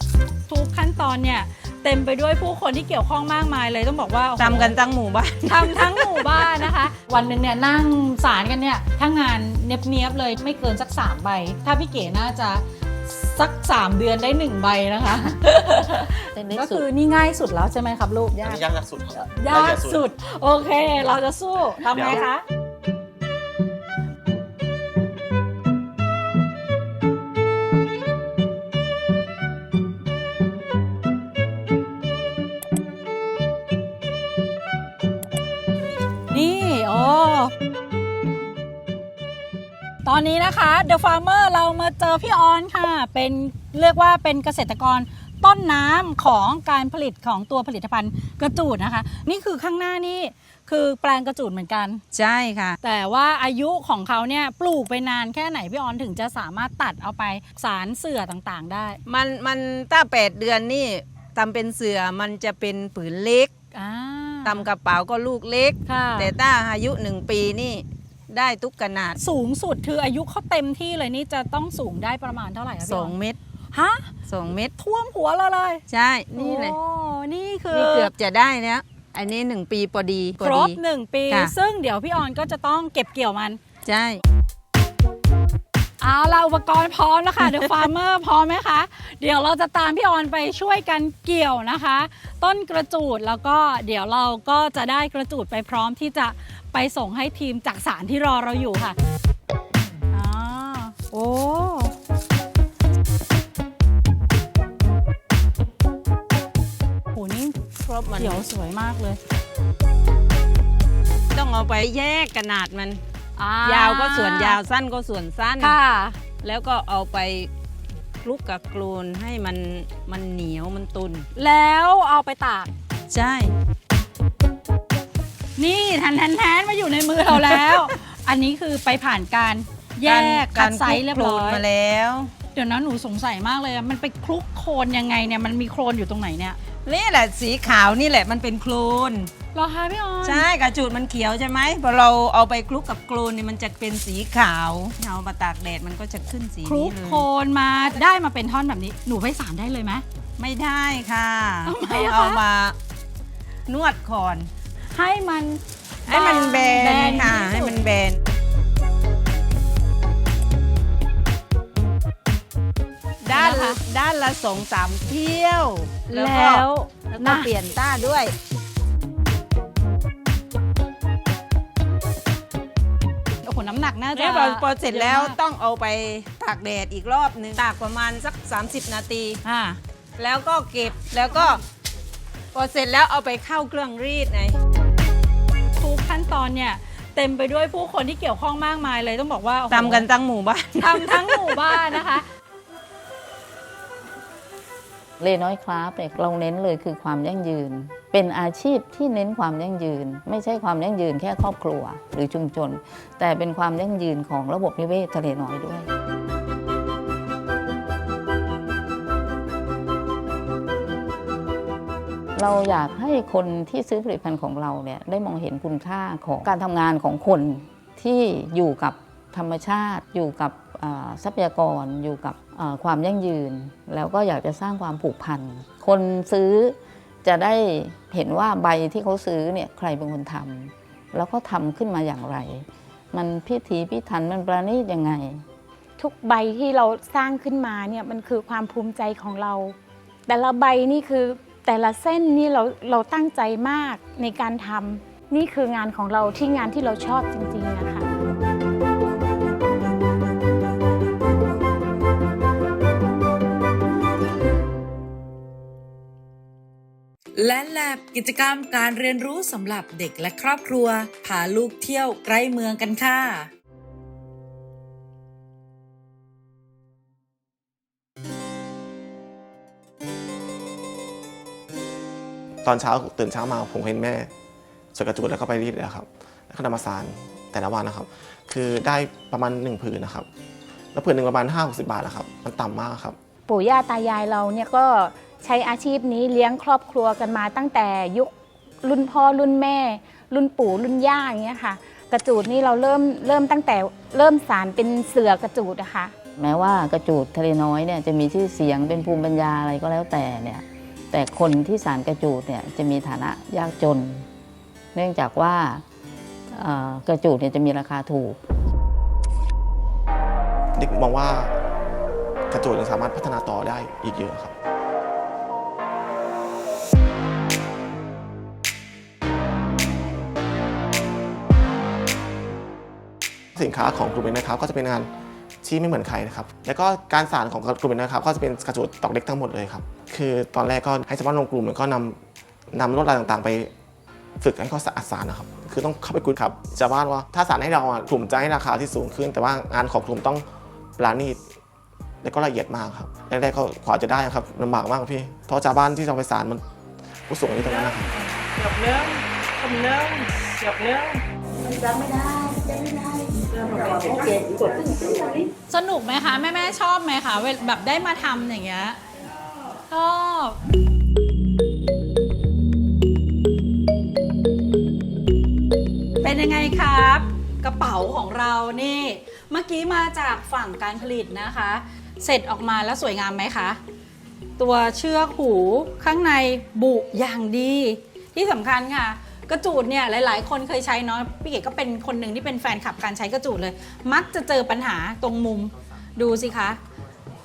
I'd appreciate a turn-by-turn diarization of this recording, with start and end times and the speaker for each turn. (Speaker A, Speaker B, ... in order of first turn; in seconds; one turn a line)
Speaker A: 0.5-4.8
Speaker B: 4.4-6.7
Speaker A: 5.4-18.4
Speaker C: 16.3-16.8
Speaker D: 18.4-20.0
Speaker A: 19.1-22.4
Speaker D: 21.9-22.2
Speaker A: 36.3-37.5
Speaker A: 40.0-52.0
Speaker B: 52.1-52.8
Speaker A: 52.8-59.0
Speaker B: 59.0-63.5
Speaker A: 63.7-64.7
Speaker B: 64.4-69.2
Speaker A: 65.8-66.3
Speaker A: 69.2-73.2
Speaker B: 72.8-73.4
Speaker A: 73.7-74.1
Speaker B: 74.2-74.7
Speaker A: 74.8-78.1
Speaker B: 75.9-76.8
Speaker B: 77.7-81.5
Speaker A: 80.4-83.6
Speaker B: 83.8-84.2
Speaker A: 86.0-99.0
Speaker A: 100.1-101.9
Speaker A: 107.1-109.2
Speaker B: 107.8-108.4
Speaker B: 111.3-113.0
Speaker A: 113.4-114.6
Speaker B: 113.6-115.8
Speaker A: 115.6-116.2
Speaker B: 116.3-117.5
Speaker B: 118.2-121.3
Speaker A: 121.3-122.7
Speaker B: 123.1-123.5
Speaker A: 125.6-131.7
Speaker B: 127.3-127.9
Speaker B: 130.0-132.3
Speaker A: 132.5-136.6
Speaker B: 136.8-139.3
Speaker A: 139.5-140.5
Speaker B: 140.2-147.3
Speaker A: 146.6-150.0
Speaker B: 150.4-152.8
Speaker A: 151.6-152.4
Speaker B: 153.7-154.5
Speaker A: 154.9-157.8
Speaker B: 156.1-158.2
Speaker B: 163.2-166.6
Speaker A: 163.3-163.8
Speaker A: 166.0-167.5
Speaker B: 167.2-168.3
Speaker A: 173.4-175.4
Speaker B: 174.1-179.4
Speaker A: 179.4-179.8
Speaker B: 180.2-181.6
Speaker B: 182.5-184.5
Speaker A: 185.8-190.1
Speaker B: 189.7-192.1
Speaker A: 190.8-192.2
Speaker C: 195.2-205.9
Speaker C: 212.3-235.4
Speaker E: 236.0-239.8
Speaker E: 240.3-248.1
Speaker F: 257.4-263.5
Speaker D: 272.6-274.3
Speaker D: 274.9-280.3
Speaker D: 280.9-283.2
Speaker E: 283.4-288.3
Speaker E: 288.8-296.1
Speaker C: 296.4-304.2
Speaker C: 304.9-305.8
Speaker C: 306.5-308.4
Speaker D: 310.8-311.5
Speaker D: 312.5-314.5
Speaker D: 323.6-325.1
Speaker D: 325.6-332.2
Speaker D: 332.7-333.7
Speaker D: 334.4-340.4
Speaker D: 341.0-341.4
Speaker D: 342.2-346.6
Speaker D: 347.3-348.1
Speaker A: 355.7-359.0
Speaker A: 359.9-360.6
Speaker A: 366.2-373.8
Speaker A: 374.6-386.8